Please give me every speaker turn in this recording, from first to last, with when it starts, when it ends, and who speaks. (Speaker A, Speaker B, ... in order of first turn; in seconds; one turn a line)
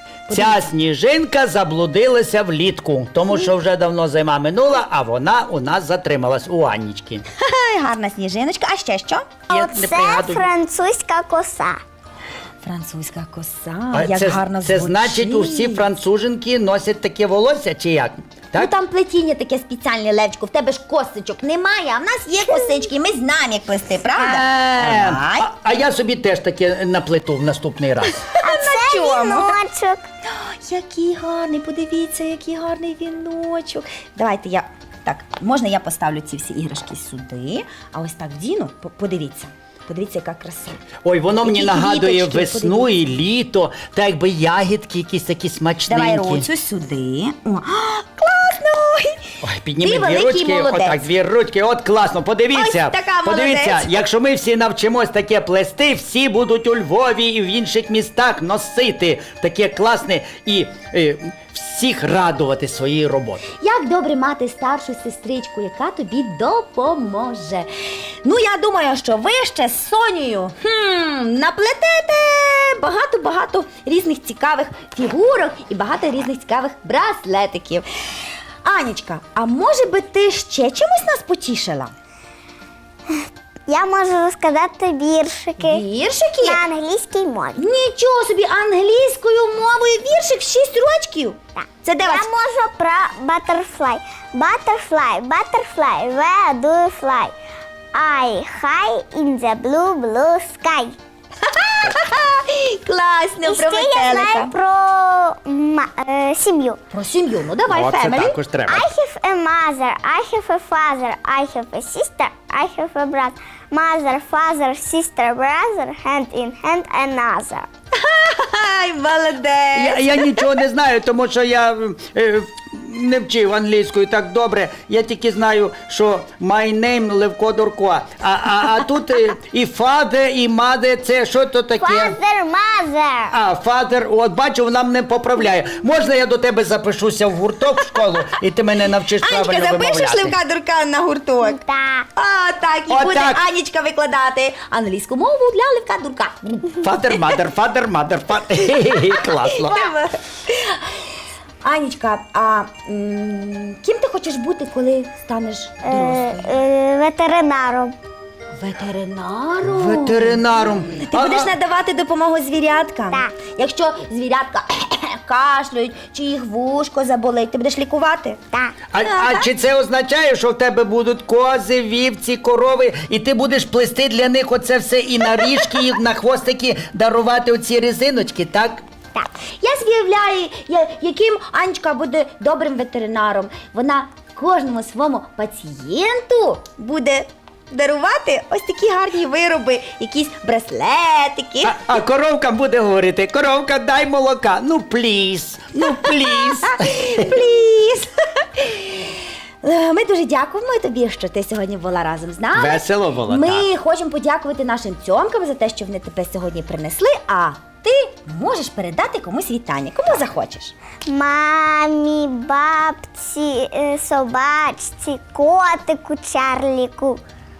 Speaker A: 0.3-0.6
Speaker B: 0.3-7.2
Speaker A: 7.4-9.3
Speaker C: 9.5-11.8
Speaker B: 9.5-10.5
Speaker A: 12.6-15.9
Speaker B: 13.9-18.7
Speaker A: 18.5-25.5
Speaker B: 24.1-28.1
Speaker A: 28.1-29.6
Speaker C: 28.4-30.0
Speaker A: 30.3-40.8
Speaker B: 41.0-46.5
Speaker A: 41.4-42.9
Speaker A: 45.9-49.2
Speaker B: 49.4-63.4
Speaker A: 49.8-51.0
Speaker A: 52.5-54.0
Speaker A: 63.6-77.9
Speaker A: 78.6-81.9
Speaker C: 83.7-85.8
Speaker A: 85.6-86.6
Speaker C: 86.4-87.6
Speaker A: 87.6-92.3
Speaker C: 91.6-97.3
Speaker C: 97.9-101.0
Speaker A: 101.4-104.5
Speaker C: 103.4-106.8
Speaker A: 106.9-108.4
Speaker B: 107.7-108.9
Speaker C: 108.7-117.7
Speaker A: 118.0-120.6
Speaker B: 119.8-132.2
Speaker C: 131.8-133.3
Speaker B: 133.3-140.4
Speaker A: 139.2-141.6
Speaker C: 141.4-142.1
Speaker A: 142.1-147.3
Speaker B: 142.9-143.4
Speaker B: 146.8-149.9
Speaker A: 148.8-151.1
Speaker A: 151.6-156.6
Speaker C: 155.9-157.9
Speaker A: 158.6-168.4
Speaker B: 159.6-161.5
Speaker B: 168.9-178.8
Speaker A: 169.1-169.4
Speaker A: 179.2-191.8
Speaker B: 191.6-197.4
Speaker A: 195.8-210.7
Speaker B: 202.5-203.7
Speaker C: 211.1-217.2